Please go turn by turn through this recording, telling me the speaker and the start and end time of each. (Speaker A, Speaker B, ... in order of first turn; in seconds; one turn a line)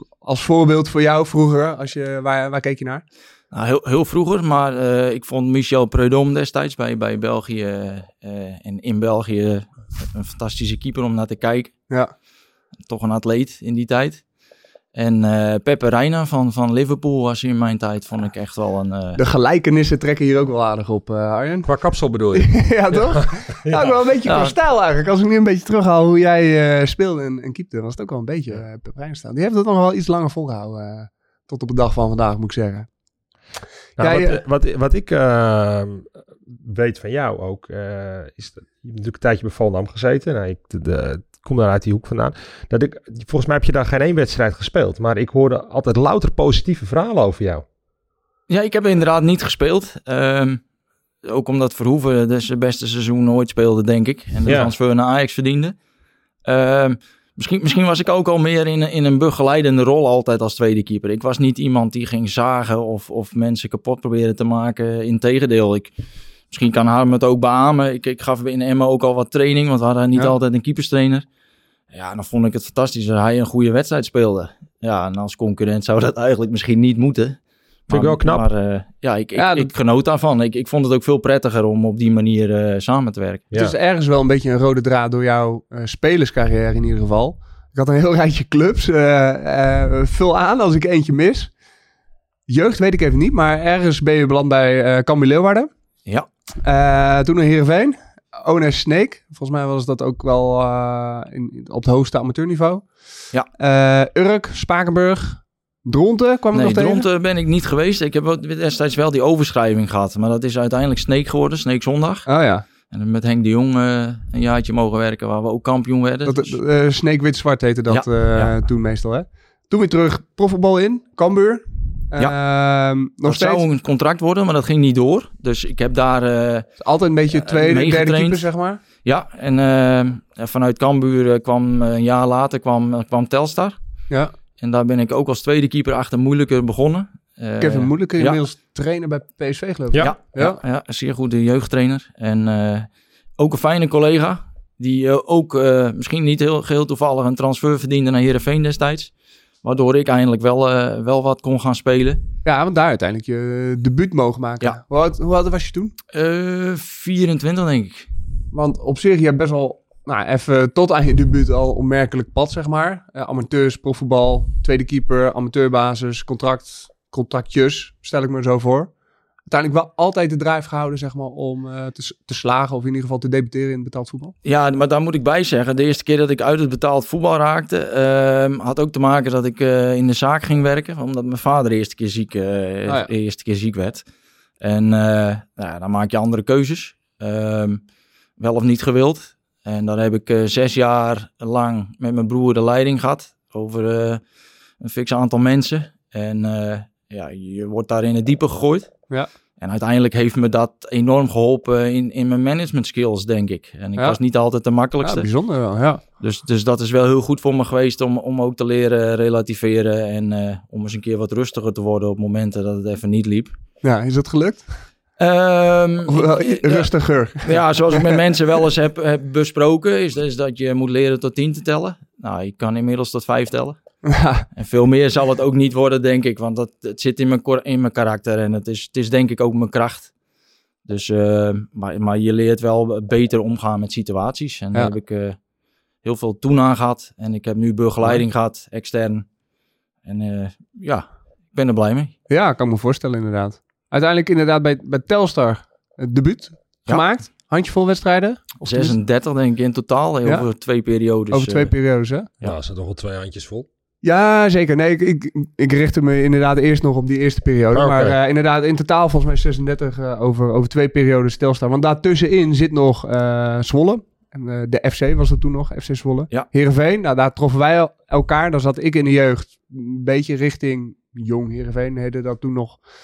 Speaker A: 0.2-3.0
Speaker B: 3.5-11.7
Speaker B: 12.8-14.2
Speaker B: 14.9-19.2
Speaker A: 19.1-21.7
Speaker C: 21.6-23.9
Speaker A: 22.3-32.9
Speaker B: 24.2-24.5
Speaker A: 34.0-34.4
Speaker C: 34.0-36.1
Speaker C: 36.6-47.6
Speaker B: 48.5-50.6
Speaker B: 51.2-55.8
Speaker C: 54.5-54.7
Speaker B: 56.4-65.9
Speaker B: 66.5-71.2
Speaker B: 71.9-83.5
Speaker C: 77.9-78.4
Speaker A: 79.3-79.7
Speaker A: 83.5-91.5
Speaker A: 92.5-95.7
Speaker A: 96.6-102.9
Speaker A: 103.6-107.1
Speaker B: 106.5-112.3
Speaker A: 112.2-112.6
Speaker B: 112.9-116.6
Speaker A: 116.2-123.6
Speaker B: 117.9-118.5
Speaker B: 123.2-126.7
Speaker A: 126.8-128.8
Speaker B: 127.3-128.5
Speaker B: 129.0-133.8
Speaker B: 134.6-138.4
Speaker A: 137.6-140.6
Speaker B: 140.0-149.1
Speaker B: 149.6-152.2
Speaker A: 152.4-155.9
Speaker B: 156.1-158.1
Speaker A: 158.5-168.9
Speaker A: 169.5-174.3
Speaker B: 174.4-184.1
Speaker B: 184.6-187.8
Speaker B: 188.4-194.2
Speaker B: 194.8-198.9
Speaker B: 199.6-205.3
Speaker A: 205.0-206.0
Speaker B: 206.2-213.6
Speaker A: 213.8-214.7
Speaker B: 215.2-216.9
Speaker A: 216.1-218.2
Speaker B: 217.4-223.8
Speaker A: 224.0-224.4
Speaker B: 224.5-230.1
Speaker B: 230.8-235.4
Speaker B: 236.0-239.2
Speaker B: 240.0-242.1
Speaker A: 242.3-248.9
Speaker B: 248.6-251.7
Speaker A: 251.3-252.3
Speaker C: 252.4-253.7
Speaker A: 254.0-272.8
Speaker C: 257.7-258.2